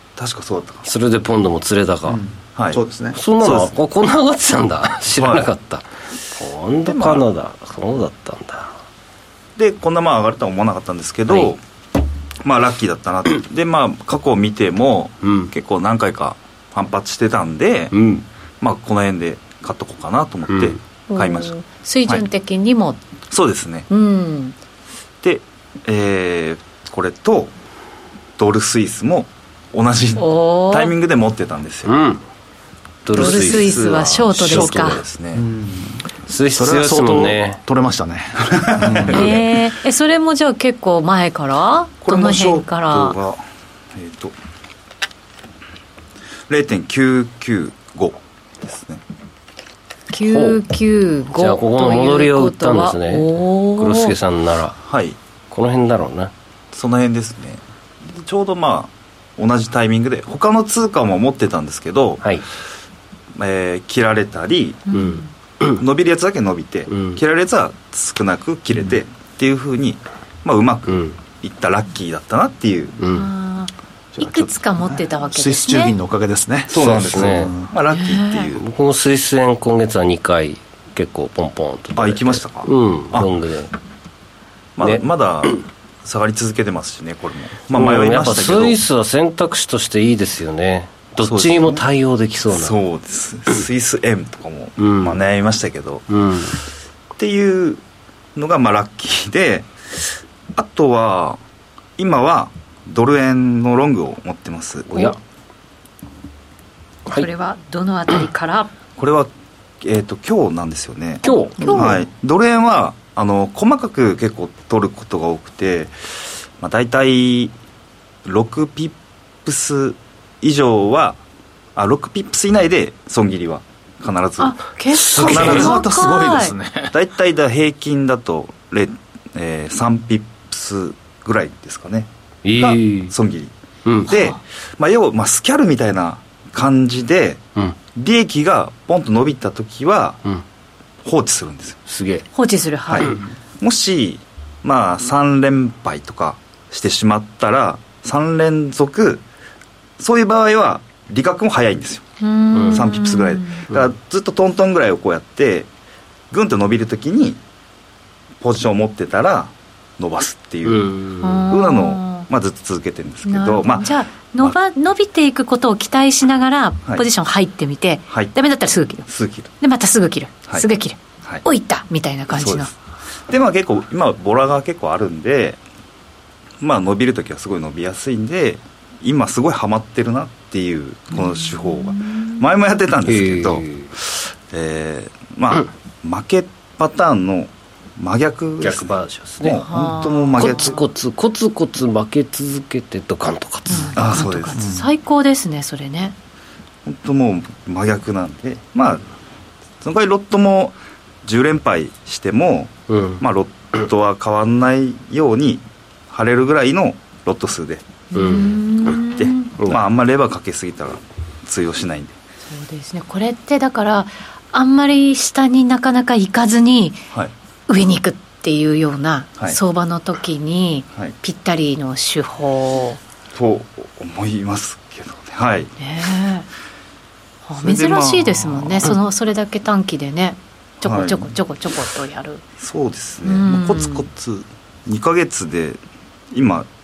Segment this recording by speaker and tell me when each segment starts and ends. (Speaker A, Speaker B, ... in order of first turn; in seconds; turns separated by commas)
Speaker A: 0.2-0.9, Speaker B: 0.8-2.2, Speaker C: 2.1-3.2, Speaker A: 2.5-2.8, Speaker B: 3.1-8.7, Speaker A: 3.4-3.7, Speaker A: 5.2-5.5, Speaker A: 6.9-7.2, Speaker A: 9.6-11.6, Speaker B: 11.3-11.6, Speaker A: 12.4-17.9, Speaker B: 15.2-15.5, Speaker B: 17.9-18.2, Speaker A: 18.6-21.5, Speaker B: 20.5-20.8, Speaker D: 21.1-23.0, Speaker A: 23.3-23.9, Speaker D: 23.9-24.6, Speaker A: 25.2-27.5, Speaker A: 28.4-31.9, Speaker D: 30.2-30.9, Speaker B: 31.9-32.2, Speaker B: 33.0-35.0, Speaker D: 33.1-35.0, Speaker A: 33.1-35.5, Speaker C: 35.4-35.9, Speaker B: 36.3-37.6, Speaker C: 36.6-39.4, Speaker A: 38.5-39.4, Speaker D: 39.1-43.2, Speaker A: 42.0-43.4, Speaker A: 43.9-44.4, Speaker A: 46.5-49.0, Speaker D: 50.1-54.1, Speaker B: 50.3-50.6, Speaker B: 51.3-54.8, Speaker A: 54.8-55.2, Speaker B: 55.5-56.3, Speaker A: 56.7-62.2, Speaker A: 63.4-64.9, Speaker D: 64.9-65.3, Speaker B: 64.9-65.8, Speaker A: 65.8-73.1, Speaker B: 66.9-67.2, Speaker B: 70.9-71.2, Speaker B: 73.0-73.3, Speaker D: 73.1-76.0, Speaker C: 74.2-77.7, Speaker A: 76.7-78.6, Speaker B: 76.8-77.5, Speaker D: 77.9-78.5, Speaker B: 78.5-83.7, Speaker A: 82.0-83.3, Speaker A: 84.8-88.8, Speaker B: 84.8-85.6, Speaker B: 87.7-92.8, Speaker A: 91.2-91.8, Speaker A: 92.5-96.1, Speaker B: 94.8-95.2, Speaker B: 96.1-96.6, Speaker A: 97.2-97.8, Speaker A: 98.4-99.7, Speaker A: 100.5-101.4, Speaker A: 102.0-105.1, Speaker B: 104.9-105.2, Speaker D: 107.1-108.7, Speaker A: 109.0-109.3, Speaker A: 109.8-115.9, Speaker B: 111.2-112.0, Speaker D: 111.6-112.0, Speaker A: 116.6-117.5, Speaker A: 118.2-121.2, Speaker A: 121.8-124.6, Speaker D: 124.4-126.6, Speaker B: 124.9-125.7, Speaker C: 125.1-126.9, Speaker A: 125.2-125.8, Speaker A: 126.9-133.5, Speaker B: 132.4-133.1, Speaker B: 133.9-134.1, Speaker A: 134.1-137.4, Speaker D: 134.1-134.4, Speaker A: 137.9-140.2, Speaker A: 141.0-141.8, Speaker B: 141.9-142.3, Speaker D: 142.3-143.2, Speaker A: 142.9-149.2, Speaker A: 150.0-152.1, Speaker D: 152.2-153.7, Speaker B: 152.5-152.8, Speaker A: 152.7-155.7, Speaker A: 156.3-157.4, Speaker A: 158.4-160.9, Speaker B: 160.7-161.5, Speaker D: 161.2-162.3, Speaker A: 161.5-163.9, Speaker D: 163.2-169.1, Speaker A: 169.1-169.5, Speaker D: 169.6-172.7, Speaker A: 172.3-172.7, Speaker A: 173.3-175.6, Speaker A: 176.6-190.8, Speaker D: 181.2-182.3, Speaker B: 183.1-183.9, Speaker B: 188.6-189.7, Speaker D: 189.6-190.8, Speaker B: 190.4-194.2, Speaker D: 193.7-196.1, Speaker A: 193.9-194.7, Speaker C: 194.6-194.8, Speaker A: 196.8-199.1, Speaker A: 199.8-207.8, Speaker B: 202.9-203.2, Speaker D: 208.1-209.6, Speaker B: 208.1-208.6, Speaker A: 209.1-212.2, Speaker D: 212.5-217.1, Speaker D: 217.7-223.0, Speaker A: 223.3-225.8, Speaker D: 225.8-226.5, Speaker D: 227.5-232.4, Speaker A: 227.6-229.0, Speaker A: 230.8-231.3, Speaker A: 232.6-236.7, Speaker D: 233.2-234.1